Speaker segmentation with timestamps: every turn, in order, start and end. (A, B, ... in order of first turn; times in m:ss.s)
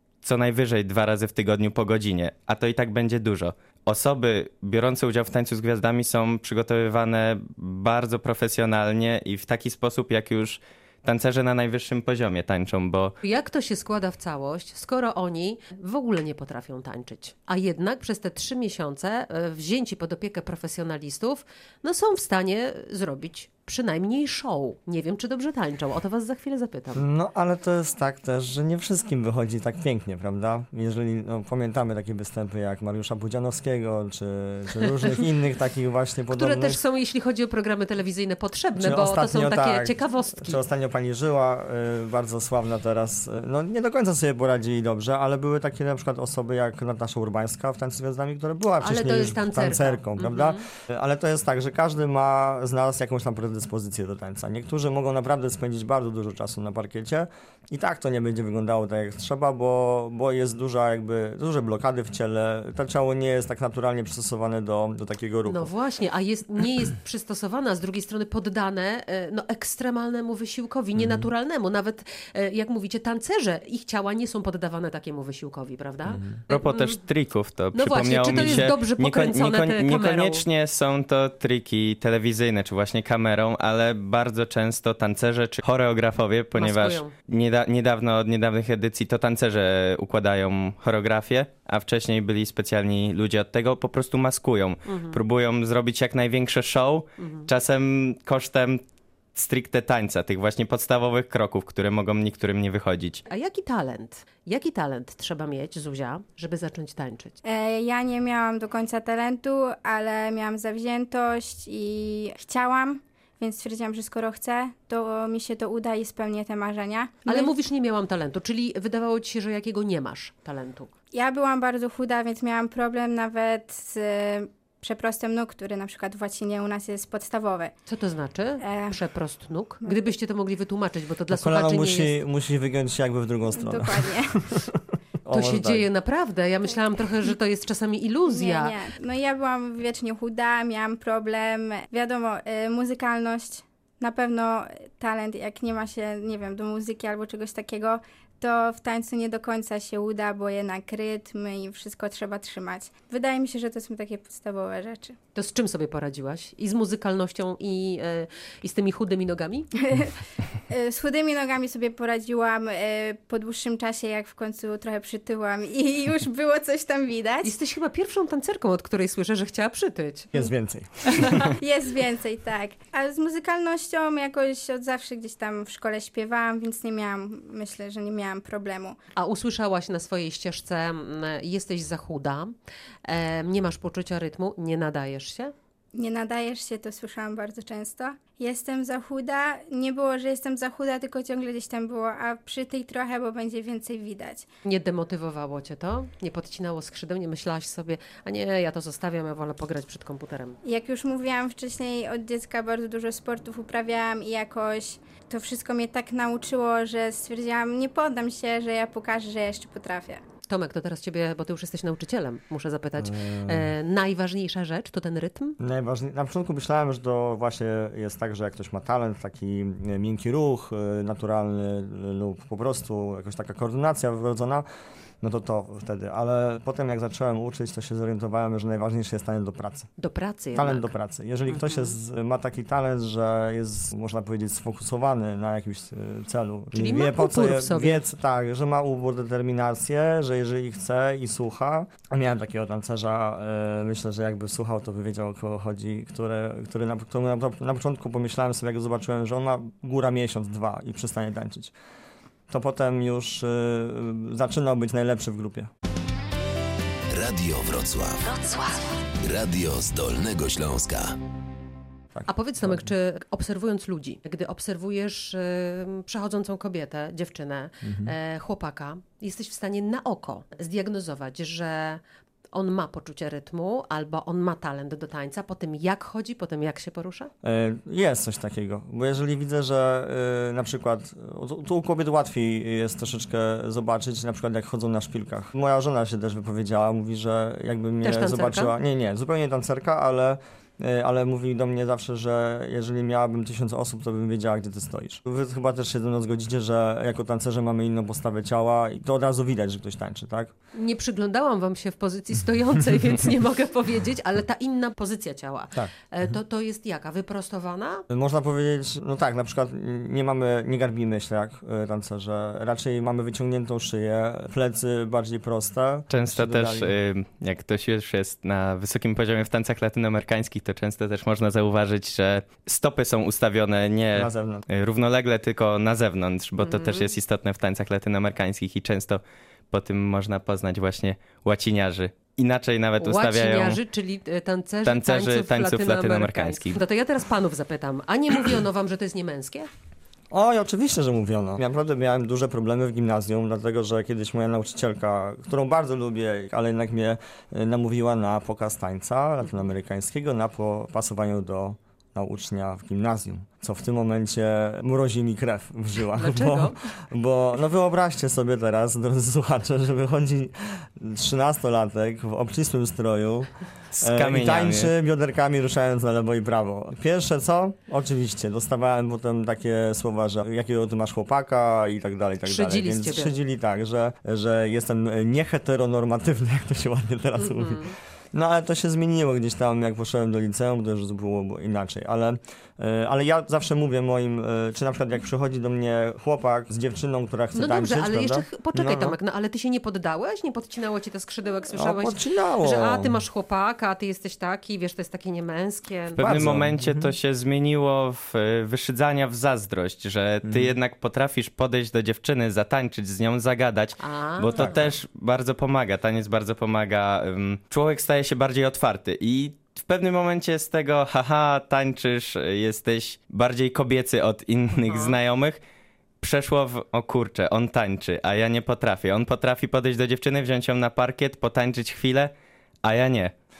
0:00.2-0:13.1 A
0:13.2-0:27.0 B
0:26.9-0:36.8 C
0:36.3-0:40.6 B
0:38.8-1:05.7 C
0:48.8-0:50.6 B
1:05.4-1:17.0 B
1:11.0-1:11.3 C
1:16.1-1:16.4 C
1:16.5-1:38.8 A
1:17.7-1:20.4 B
1:18.3-1:18.7 C
1:26.6-1:27.1 B
1:34.8-1:35.2 B
1:37.2-1:37.5 B
1:39.3-1:43.2 A
1:43.3-1:47.4 B
1:47.4-1:57.5 D
1:57.3-2:00.9 B
2:01.1-2:07.7 D
2:07.8-2:12.2 B
2:08.6-2:09.0 D
2:11.3-2:15.8 C
2:13.5-2:14.4 D
2:15.3-2:18.8 B
2:18.3-2:35.2 D
2:35.3-2:39.7 B
2:39.8-2:47.5 D
2:47.4-2:50.3 B
2:50.3-2:51.5 C
2:51.1-2:51.5 B
2:51.2-2:59.0 D
2:59.2-3:02.5 B
3:03.1-3:05.5 B
3:05.9-3:14.5 D
3:14.6-3:20.6 B
3:20.6-3:30.2 D
3:30.5-3:35.6 B
3:33.0-3:33.7 C
3:35.6-3:44.6 C
3:45.2-3:49.9 C
3:50.0-3:50.9 B
3:50.5-4:11.7 C
3:51.5-3:51.9 B
3:56.7-3:58.0 B
4:12.5-4:15.7 C
4:17.1-4:21.1 E
4:22.1-4:22.9 C
4:22.3-4:32.0 B
4:27.8-4:28.1 C
4:32.5-4:37.3 B
4:37.4-5:00.5 C
4:48.0-4:48.7 B
5:00.7-5:08.0 B
5:08.1-5:16.9 C
5:16.1-5:33.8 A
5:24.1-5:24.6 C
5:26.6-5:27.1 B
5:33.0-5:39.7 B
5:34.8-5:36.8 A
5:40.3-6:29.2 C
5:56.2-5:56.8 B
6:03.9-6:04.9 A
6:12.4-6:13.3 B
6:17.4-6:18.0 B
6:27.5-6:36.3 B
6:31.7-6:33.2 C
6:36.2-6:55.6 A
6:36.2-6:37.1 C
6:40.4-6:40.8 C
6:44.0-6:44.8 B
6:44.6-6:44.9 C
6:54.7-6:55.2 B
6:56.2-7:02.3 A
7:02.8-7:03.3 A